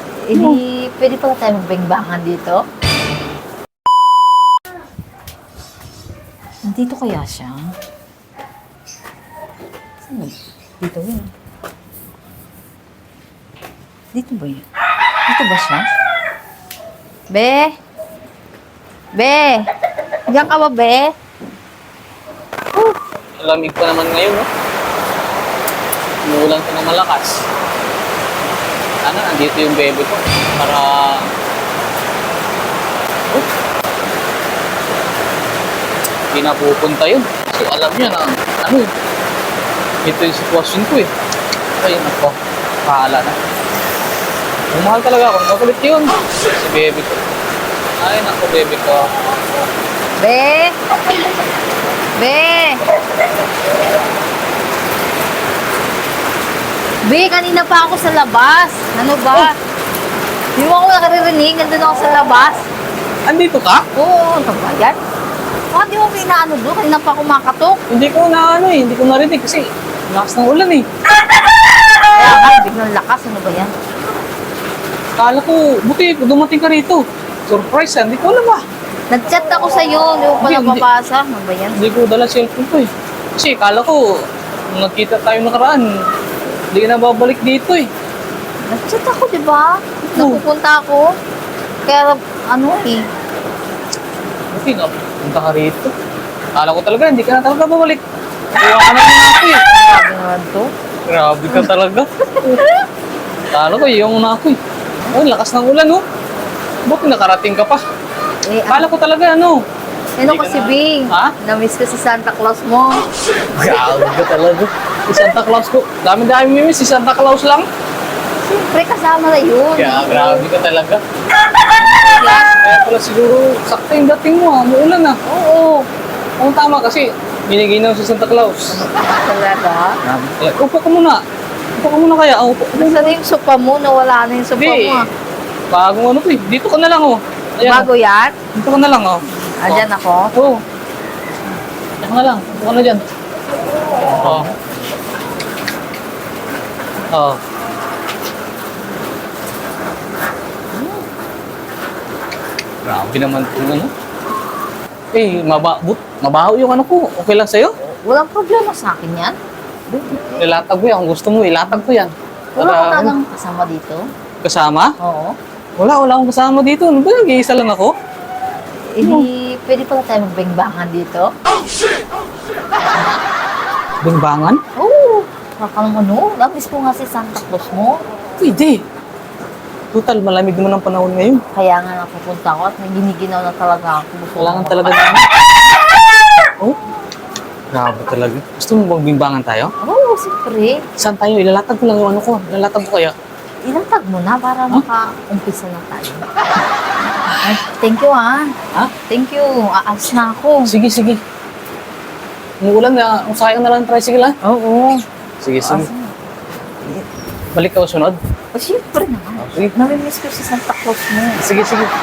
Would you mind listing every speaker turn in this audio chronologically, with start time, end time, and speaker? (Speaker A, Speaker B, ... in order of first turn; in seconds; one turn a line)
Speaker A: 0.3-2.6
Speaker A: 6.7-7.7
Speaker A: 10.1-11.3
Speaker A: 14.1-14.7
Speaker A: 15.3-15.8
Speaker A: 17.3-17.8
Speaker A: 19.2-19.6
Speaker A: 20.3-21.1
Speaker B: 23.4-24.5
Speaker B: 26.2-27.4
Speaker B: 29.1-31.2
Speaker B: 36.3-38.9
Speaker B: 40.0-41.1
Speaker B: 41.8-43.4
Speaker B: 44.7-47.2
Speaker B: 48.0-49.1
Speaker A: 50.2-50.7
Speaker A: 52.2-52.8
Speaker A: 57.1-59.5
Speaker A: 60.5-62.6
Speaker B: 63.3-63.8
Speaker A: 64.0-65.0
Speaker A: 65.7-67.8
Speaker B: 67.9-70.9
Speaker A: 72.2-73.7
Speaker B: 75.2-78.6
Speaker A: 79.1-81.8
Speaker B: 80.4-80.8
Speaker B: 81.8-84.0
Speaker B: 84.7-85.9
Speaker B: 86.7-87.9
Speaker A: 88.7-91.0
Speaker B: 90.0-90.4
Speaker A: 91.9-93.0
Speaker B: 94.5-95.9
Speaker B: 96.5-98.0
Speaker B: 98.5-99.6
Speaker A: 99.7-100.7
Speaker B: 101.1-102.6
Speaker A: 102.2-102.8
Speaker B: 103.5-104.6
Speaker B: 105.1-106.0
Speaker B: 106.9-107.8
Speaker A: 108.5-108.9
Speaker B: 108.7-109.6
Speaker A: 110.2-113.0
Speaker B: 110.2-111.3
Speaker B: 113.5-117.7
Speaker A: 118.4-120.5
Speaker B: 119.8-121.0
Speaker A: 121.8-122.5
Speaker B: 122.5-125.2
Speaker A: 125.3-125.9
Speaker B: 126.4-128.8
Speaker A: 128.7-130.0
Speaker B: 130.0-131.2
Speaker B: 131.8-133.2
Speaker A: 132.8-135.1
Speaker B: 134.6-135.0
Speaker B: 135.7-137.9
Speaker A: 137.6-138.4
Speaker B: 138.5-140.6
Speaker A: 139.6-140.3
Speaker B: 142.0-143.1
Speaker B: 144.1-144.5
Speaker A: 144.2-144.5
Speaker B: 147.1-147.4
Speaker A: 150.7-151.1
Speaker B: 152.8-153.9
Speaker B: 155.1-157.7
Speaker A: 157.8-159.3
Speaker A: 159.9-160.4
Speaker B: 160.4-163.2
Speaker A: 162.6-164.0
Speaker B: 164.4-164.9
Speaker A: 165.0-165.3
Speaker B: 165.8-167.9
Speaker A: 168.9-171.3
Speaker B: 169.0-169.3
Speaker A: 172.8-173.2
Speaker B: 174.0-174.6
Speaker A: 174.8-178.0
Speaker B: 178.4-178.8
Speaker B: 179.9-181.4
Speaker A: 181.6-185.2
Speaker B: 184.4-185.2
Speaker B: 187.7-189.7
Speaker A: 189.8-190.8
Speaker B: 191.0-193.1
Speaker A: 193.7-196.3
Speaker B: 197.3-197.6
Speaker A: 197.4-198.5
Speaker A: 199.1-200.7
Speaker B: 200.7-201.2
Speaker B: 202.6-204.4
Speaker A: 204.4-205.0
Speaker B: 205.4-205.9
Speaker A: 205.6-206.1
Speaker B: 207.5-208.2
Speaker A: 208.5-211.5
Speaker B: 209.4-209.7
Speaker B: 211.4-211.9